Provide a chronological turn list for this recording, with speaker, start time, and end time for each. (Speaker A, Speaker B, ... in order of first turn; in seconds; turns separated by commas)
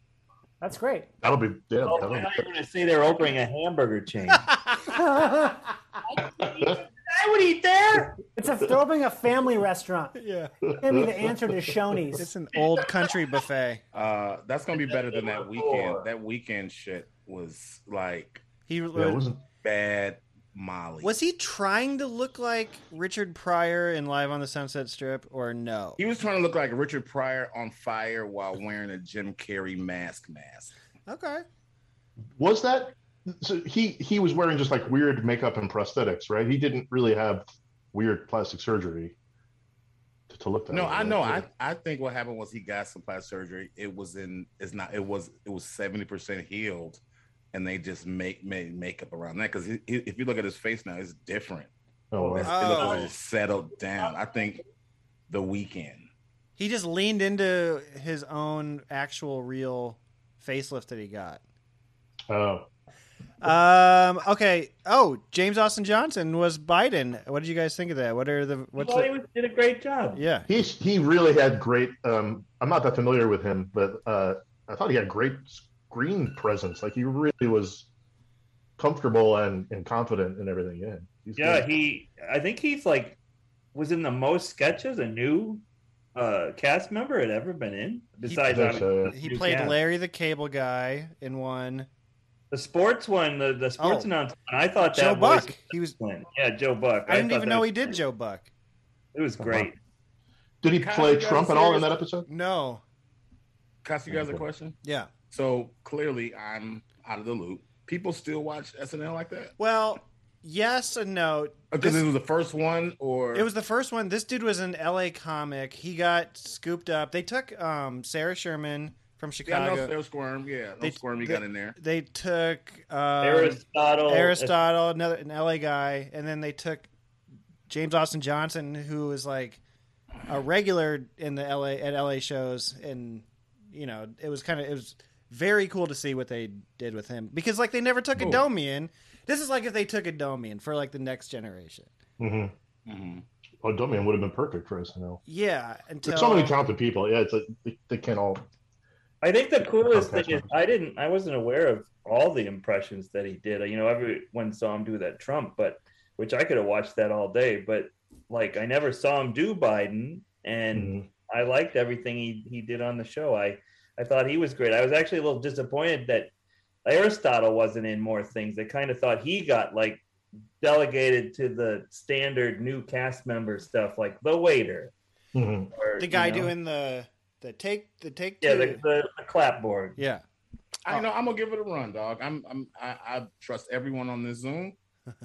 Speaker A: 0.6-1.1, Speaker B: 1.2-2.4, Speaker C: 1.8-4.5, Speaker D: 4.3-4.8, Speaker A: 4.9-5.6, Speaker C: 6.1-8.2, Speaker B: 6.4-6.8, Speaker A: 8.3-10.2, Speaker D: 10.2-10.5, Speaker B: 10.7-11.4, Speaker A: 10.8-12.3, Speaker D: 12.2-13.8, Speaker E: 13.9-18.4, Speaker C: 14.8-16.1, Speaker D: 18.7-19.2, Speaker B: 18.9-19.4, Speaker E: 19.6-21.1, Speaker D: 21.0-26.0, Speaker E: 26.0-30.7, Speaker D: 31.1-31.5, Speaker B: 32.4-39.1, Speaker B: 40.3-41.5, Speaker E: 40.7-47.0, Speaker E: 47.5-54.6, Speaker B: 52.1-53.0, Speaker D: 52.4-53.1, Speaker E: 55.3-56.1, Speaker D: 56.6-61.4, Speaker B: 62.3-62.7, Speaker D: 63.4-69.1, Speaker C: 68.8-70.2, Speaker D: 70.2-70.5, Speaker B: 70.5-77.9, Speaker B: 78.8-81.7, Speaker C: 81.4-83.2, Speaker C: 83.7-85.6, Speaker C: 86.2-89.8, Speaker D: 88.3-91.9, Speaker B: 88.5-89.1, Speaker C: 92.5-98.0, Speaker D: 93.8-94.1, Speaker D: 94.9-96.0, Speaker D: 97.1-98.5, Speaker C: 99.1-99.8, Speaker B: 99.4-99.7, Speaker B: 100.6-102.3, Speaker E: 100.7-102.0, Speaker D: 102.3-102.8, Speaker E: 103.8-109.5, Speaker B: 104.1-104.5, Speaker D: 104.8-105.1, Speaker D: 109.6-112.1, Speaker E: 111.7-113.5, Speaker D: 113.3-119.9, Speaker E: 119.5-121.8, Speaker D: 120.8-126.9, Speaker C: 123.2-124.6, Speaker D: 127.7-129.6, Speaker D: 130.3-141.9, Speaker B: 142.2-142.5, Speaker E: 142.9-143.2, Speaker B: 143.6-145.2, Speaker D: 145.3-146.6, Speaker B: 146.1-148.4, Speaker C: 149.2-166.3, Speaker B: 149.9-150.5, Speaker B: 160.7-161.1, Speaker C: 166.8-170.0, Speaker C: 170.6-174.9, Speaker B: 175.3-175.7, Speaker C: 175.7-176.5, Speaker D: 176.0-178.8, Speaker C: 178.4-180.0, Speaker D: 180.0-180.2, Speaker E: 180.8-184.8